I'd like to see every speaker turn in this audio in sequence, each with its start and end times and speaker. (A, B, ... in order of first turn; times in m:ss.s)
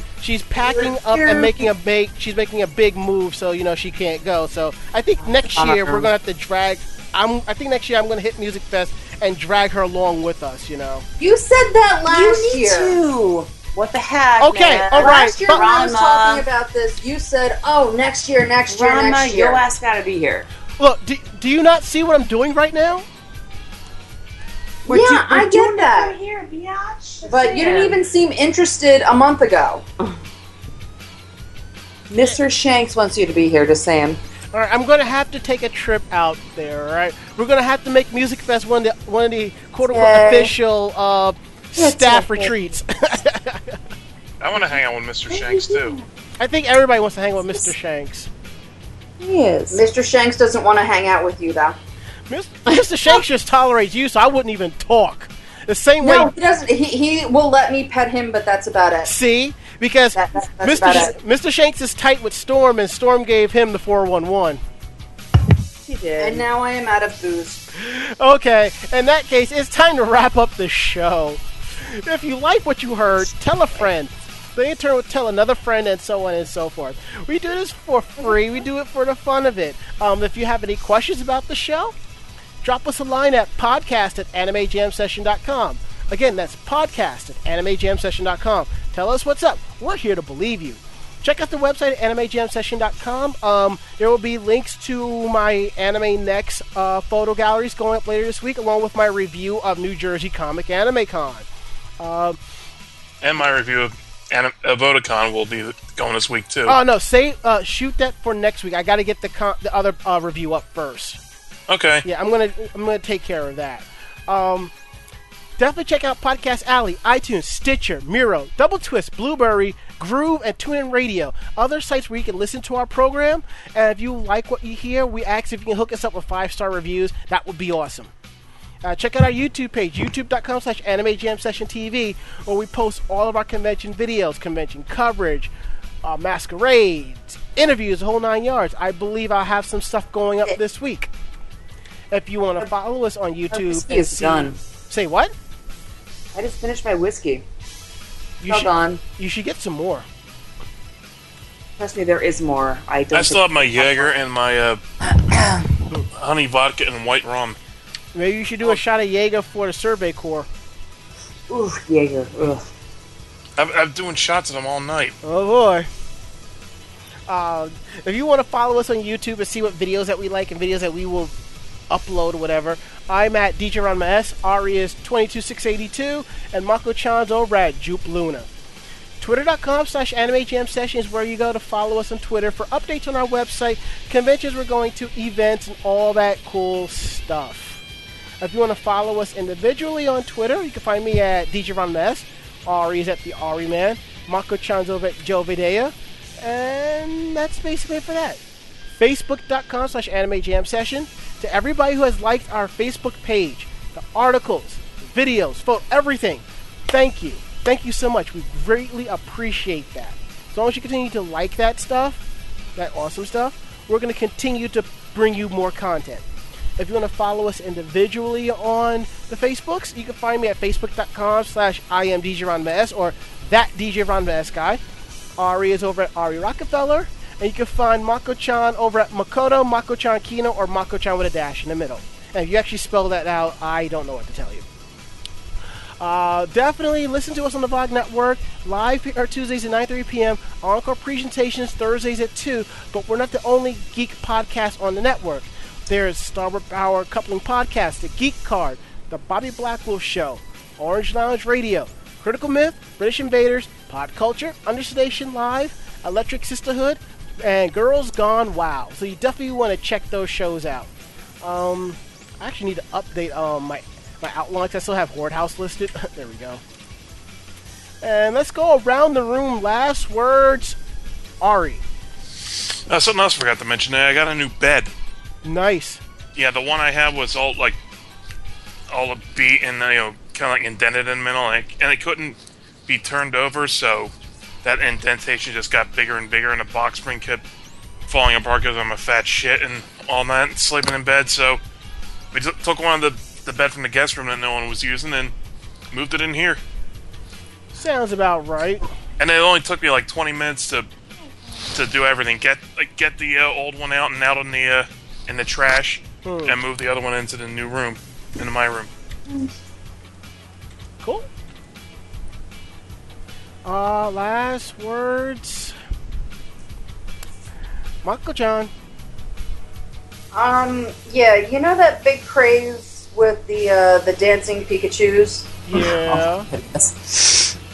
0:00.2-0:11.0 A
0:00.7-0:01.6 B
0:05.2-0:06.1 C
0:11.2-0:13.0 B
0:12.1-0:16.4 C
0:14.4-0:15.7 A
0:15.0-0:19.6 B
0:18.7-0:20.5 C
0:20.8-0:23.1 A
0:24.8-0:28.0 C
0:24.9-0:26.2 B
0:27.3-0:29.8 B
0:32.1-0:34.2 C
0:34.5-0:43.8 A
0:39.9-0:40.5 B
0:41.8-0:42.5 C
0:44.4-0:46.0 D
0:45.3-0:46.0 C
0:46.4-0:48.3 A
0:49.2-0:49.8 C
0:49.7-0:51.8 B
0:52.3-0:56.3 A
0:56.0-0:59.1 B
0:59.0-1:04.6 A
1:00.2-1:01.1 B
1:05.8-1:06.4 C
1:06.2-1:07.6 B
1:07.7-1:22.0 A
1:22.6-1:41.5 A
1:42.0-1:42.4 A
1:43.2-1:46.8 D
1:46.7-1:51.2 A
1:51.7-1:52.0 D
1:52.0-1:54.7 A
1:55.6-2:08.1 A
2:08.8-2:15.5 A
2:16.0-2:21.1 A
2:22.1-2:25.3 A
2:23.5-2:24.6 C
2:23.9-2:24.4 B
2:26.3-2:27.4 C
2:28.4-2:30.1 A
2:28.5-2:29.0 C
2:31.8-2:34.1 C
2:33.1-2:34.8 D
2:35.1-2:35.7 C
2:36.1-2:37.6 D
2:38.2-2:40.5 A
2:41.5-2:42.7 C
2:43.6-2:45.2 D
2:45.2-2:45.9 A
2:47.3-2:51.3 A
2:51.9-2:58.5 A
2:59.2-3:07.8 A
3:08.4-3:18.4 A
3:19.0-3:32.2 A
3:32.8-3:36.2 A
3:36.8-3:44.8 A
3:45.4-3:54.7 A
3:56.0-4:20.9 A
4:21.4-4:26.6 A
4:28.0-4:30.8 A
4:31.4-4:31.8 A
4:32.5-4:34.9 D
4:35.4-4:36.0 A
4:36.4-4:37.8 D
4:38.9-4:47.4 D
4:48.1-4:51.6 D
4:52.3-4:55.4 D
4:55.9-4:56.6 D
4:57.7-4:58.9 A
4:59.2-5:00.9 D
5:01.7-5:08.9 D
5:06.2-5:06.6 A
5:13.6-5:15.8 A
5:18.0-5:18.7 A
5:20.3-5:25.6 B
5:25.7-5:26.5 A
5:25.7-5:27.6 C